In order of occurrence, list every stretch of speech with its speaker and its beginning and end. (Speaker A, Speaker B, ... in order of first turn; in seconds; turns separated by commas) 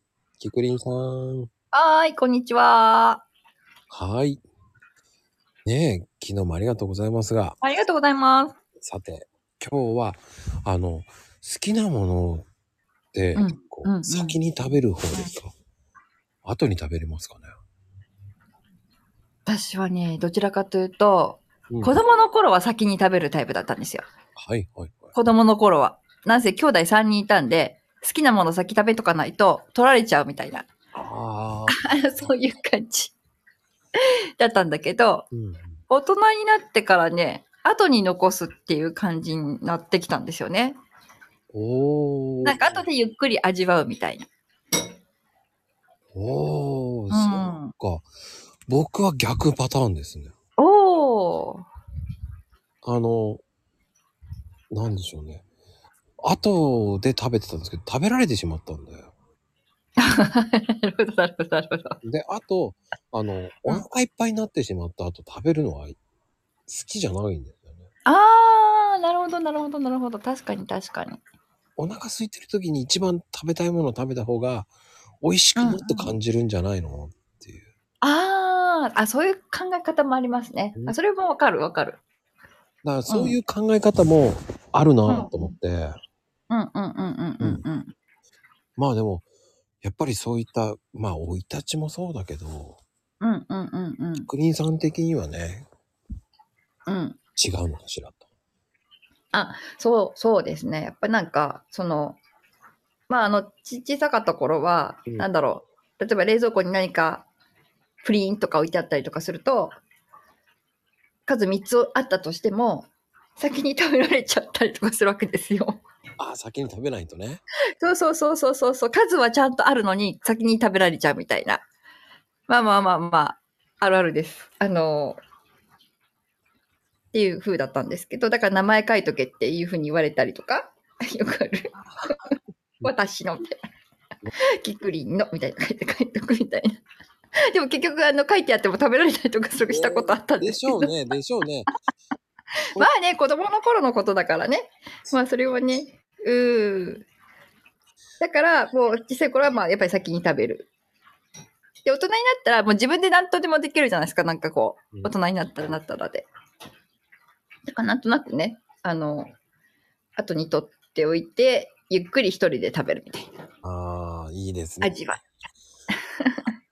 Speaker A: 0.4-1.5, Speaker B: 1.7-3.2, Speaker A: 3.9-4.4, Speaker A: 5.7-7.6, Speaker B: 7.6-8.6, Speaker A: 8.8-12.4, Speaker A: 13.1-15.5, Speaker B: 13.3-14.4, Speaker A: 16.4-17.6, Speaker B: 19.4-24.1, Speaker A: 21.7-22.0, Speaker A: 24.4-25.1, Speaker B: 25.1-30.7, Speaker A: 30.9-32.3, Speaker B: 31.7-33.1, Speaker B: 34.4-35.3, Speaker A: 35.3-35.8, Speaker B: 35.9-40.8, Speaker A: 41.5-42.9, Speaker B: 42.4-44.3, Speaker A: 46.1-48.1, Speaker B: 47.1-47.7, Speaker A: 48.7-50.3, Speaker B: 50.6-51.6, Speaker A: 52.8-53.4, Speaker A: 54.7-55.4, Speaker A: 56.2-59.1, Speaker B: 60.0-62.0, Speaker A: 62.0-66.0, Speaker A: 66.7-67.8, Speaker B: 68.0-71.2, Speaker A: 71.8-74.7, Speaker A: 75.2-77.7, Speaker B: 75.5-76.1, Speaker B: 78.0-82.0, Speaker A: 82.8-86.0, Speaker B: 83.1-83.4, Speaker B: 85.1-85.5, Speaker B: 86.5-87.9, Speaker A: 87.4-87.6, Speaker A: 88.8-89.2, Speaker A: 89.8-92.8, Speaker B: 93.2-94.3, Speaker A: 94.3-95.7, Speaker B: 96.9-97.2, Speaker A: 97.3-98.2, Speaker B: 99.3-102.2, Speaker B: 103.1-107.3, Speaker B: 108.0-109.8, Speaker B: 111.2-115.8, Speaker A: 116.2-117.4, Speaker B: 117.8-121.6, Speaker B: 122.5-125.2, Speaker B: 127.1-132.2, Speaker B: 132.8-133.6, Speaker B: 134.6-136.8, Speaker B: 137.5-141.0, Speaker A: 139.7-141.7, Speaker B: 142.7-147.0, Speaker B: 148.2-150.7, Speaker B: 151.8-156.3, Speaker B: 157.7-159.3, Speaker B: 160.2-163.3, Speaker A: 163.6-165.0, Speaker B: 164.8-165.2, Speaker B: 166.2-166.5